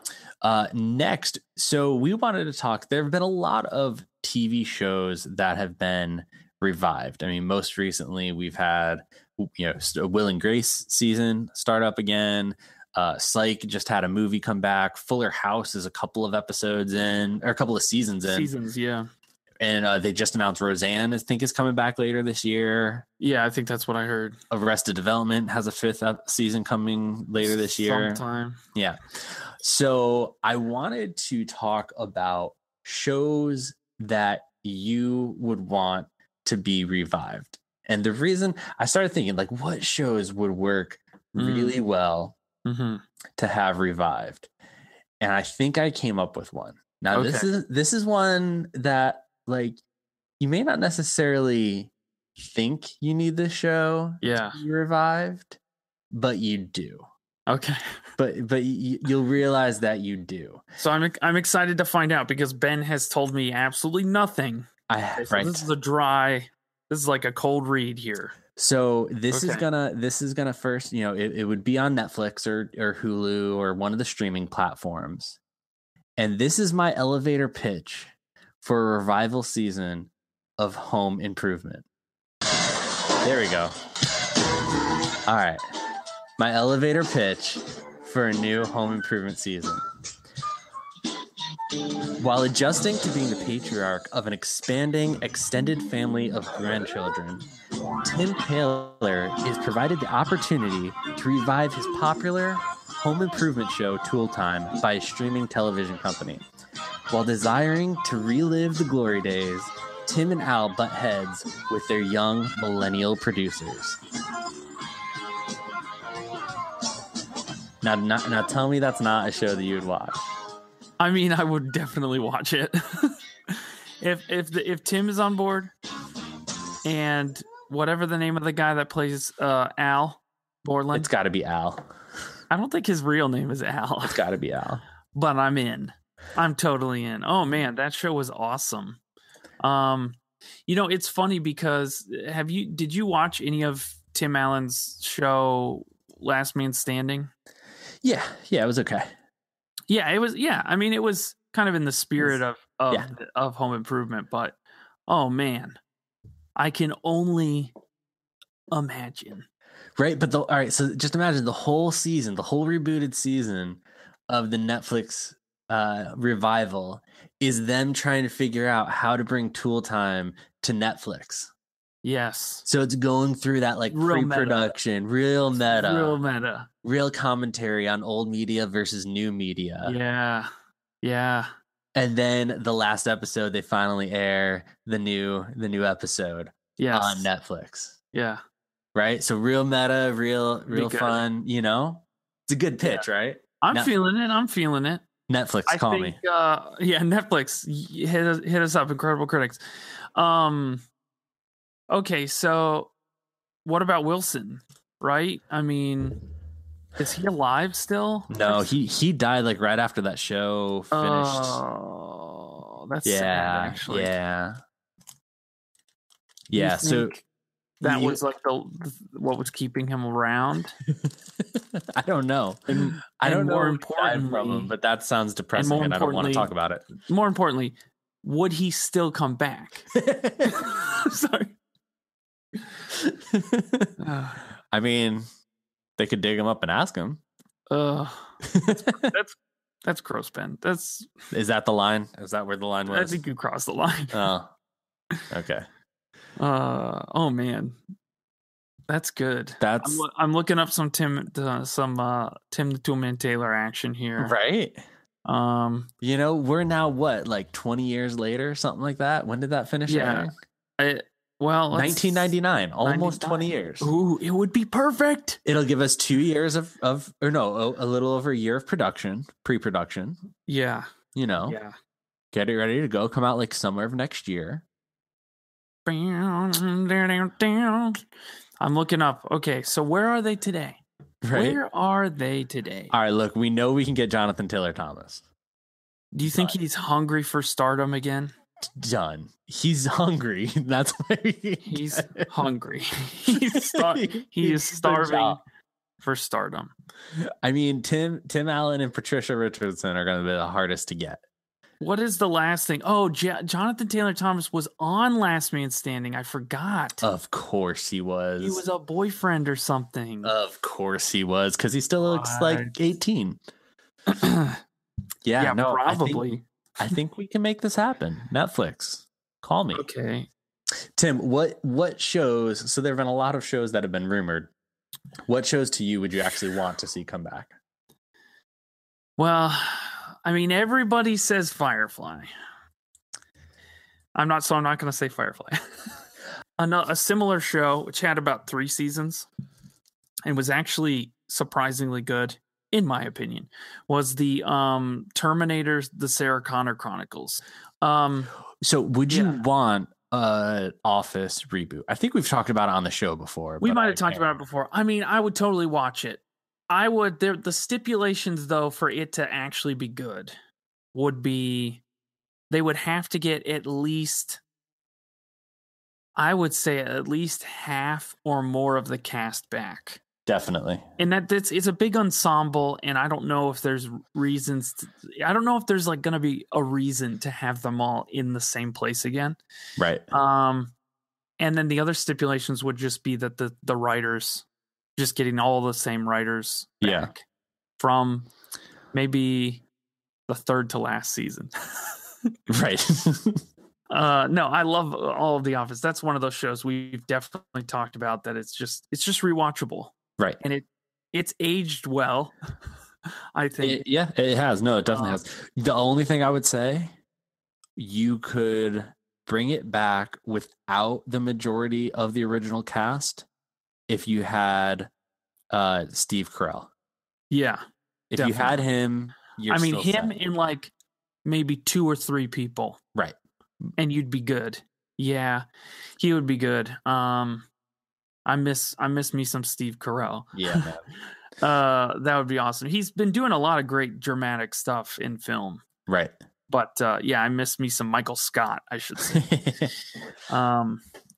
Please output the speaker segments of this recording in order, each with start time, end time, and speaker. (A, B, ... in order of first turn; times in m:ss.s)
0:00.4-0:18.5 A
0:18.3-0:19.1 B
0:19.6-0:23.0 A
0:23.2-0:24.4 B
0:24.5-0:28.2 A
0:27.8-0:28.6 B
0:28.7-0:42.4 A
0:41.4-0:41.8 B
0:42.6-0:43.0 B
0:43.4-0:44.5 A
0:45.2-0:49.8 A
0:47.1-0:47.5 B
0:50.4-0:55.6 A
0:54.2-0:54.6 B
0:56.1-0:57.1 A
0:57.5-0:57.8 B
0:58.2-1:00.6 A
1:00.8-1:08.3 B
1:04.9-1:05.6 A
1:08.6-1:15.4 A
1:09.3-1:09.6 B
1:16.2-1:21.8 A
1:23.2-1:23.7 A
1:25.3-1:25.6 A
1:26.4-1:29.8 A
1:32.2-1:37.4 A
1:38.0-1:46.4 A
1:47.1-1:54.0 A
1:57.8-2:00.2 A
2:01.0-2:05.7 B
2:06.8-2:11.1 B
2:10.9-2:11.8 A
2:12.5-2:14.2 B
2:14.0-2:14.8 A
2:15.1-2:19.0 B
2:19.6-2:27.3 B
2:28.0-2:29.1 A
2:29.9-2:35.8 B
2:36.6-2:37.7 B
2:38.7-2:39.4 B
2:40.0-2:51.5 A
2:52.0-2:52.6 B
2:52.6-2:56.2 A
2:53.9-2:54.7 B
2:55.7-2:56.7 B
2:56.8-3:00.0 A
2:59.8-3:00.5 B
3:01.0-3:01.5 B
3:01.9-3:08.0 A
3:06.8-3:07.3 B
3:08.1-3:08.4 B
3:08.9-3:13.9 A
3:10.7-3:11.2 B
3:13.6-3:15.0 B
3:15.3-3:16.2 A
3:15.7-3:19.6 B
3:20.2-3:20.8 B
3:21.9-3:22.9 B
3:23.6-3:26.2 B
3:27.0-3:28.7 B
3:28.3-3:31.6 A
3:30.9-3:34.1 B
3:33.0-3:34.6 A
3:36.5-3:37.2 A
3:36.5-3:37.2 B
3:37.8-3:38.2 A
3:37.8-3:40.7 B
3:41.0-3:46.9 A
3:42.7-3:44.7 B
3:45.5-3:49.9 B
3:50.0-3:50.7 A
3:50.4-3:51.6 B
3:53.0-3:53.9 A
3:54.0-3:54.4 B
3:54.7-3:55.2 A
3:56.0-3:57.2 A
3:57.7-3:58.4 B
3:58.4-3:59.1 A
3:59.0-4:01.1 B
4:01.3-4:03.2 A
4:02.9-4:04.3 B
4:04.1-4:04.5 A
4:05.3-4:05.6 A
4:06.4-4:07.8 B
4:08.9-4:14.3 B
4:09.6-4:10.0 A
4:14.2-4:14.8 A
4:15.2-4:15.9 B
4:16.0-4:20.3 A
4:19.9-4:22.3 B
4:21.7-4:23.9 A
4:22.8-4:25.4 B
4:25.4-4:30.2 A
4:30.5-4:30.9 B
4:31.1-4:31.6 A
4:31.4-4:31.7 B
4:32.3-4:34.6 A
4:35.8-4:38.0 B
4:38.6-4:42.9 B
4:41.2-4:41.6 A
4:42.9-4:45.2 A
4:46.1-4:48.3 B
4:48.8-4:52.3 A
4:51.6-4:55.4 B
4:53.3-4:55.4 A
4:56.0-4:56.7 B
4:57.4-5:01.2 A
5:01.8-5:07.0 B
5:07.0-5:08.6 A
5:08.4-5:10.3 B
5:10.2-5:13.4 A
5:12.0-5:12.7 B
5:14.1-5:14.6 B
5:15.2-5:16.2 A
5:15.4-5:16.4 B
5:16.8-5:19.8 A
5:19.7-5:20.3 B
5:21.0-5:24.5 A
5:25.2-5:27.5 A
5:29.2-5:32.3 B
5:34.2-5:35.6 B
5:36.6-5:39.3 B
5:40.2-5:48.3 B
5:48.6-5:54.3 A
5:49.1-5:49.4 B
5:53.6-6:00.3 B
6:00.9-6:01.8 B
6:02.5-6:04.4 B
6:06.2-6:10.0 B
6:10.2-6:10.8 A
6:11.0-6:19.4 B
6:19.8-6:20.0 A
6:20.1-6:20.7 B
6:21.4-6:24.4 B
6:25.0-6:27.2 B
6:26.8-6:27.1 A
6:27.8-6:28.3 B
6:28.9-6:29.6 B
6:30.3-6:31.9 B
6:32.5-6:33.4 A
6:33.9-6:42.3 B
6:43.3-6:43.8 B
6:43.6-6:46.9 A
6:44.9-6:45.2 B
6:47.8-6:53.3 A
6:53.9-6:54.9 A
6:55.5-6:56.7 A
6:57.3-6:57.6 B
6:58.1-7:00.1 A
6:58.2-6:58.6 B
6:59.5-7:00.7 B
7:01.2-7:02.8 B
7:03.8-7:05.4 B
7:06.0-7:07.5 B
7:08.2-7:10.7 B
7:10.3-7:10.8 A
7:11.4-7:15.6 B
7:15.9-7:16.1 A
7:16.5-7:19.3 B
7:19.1-7:19.7 A
7:20.3-7:20.8 B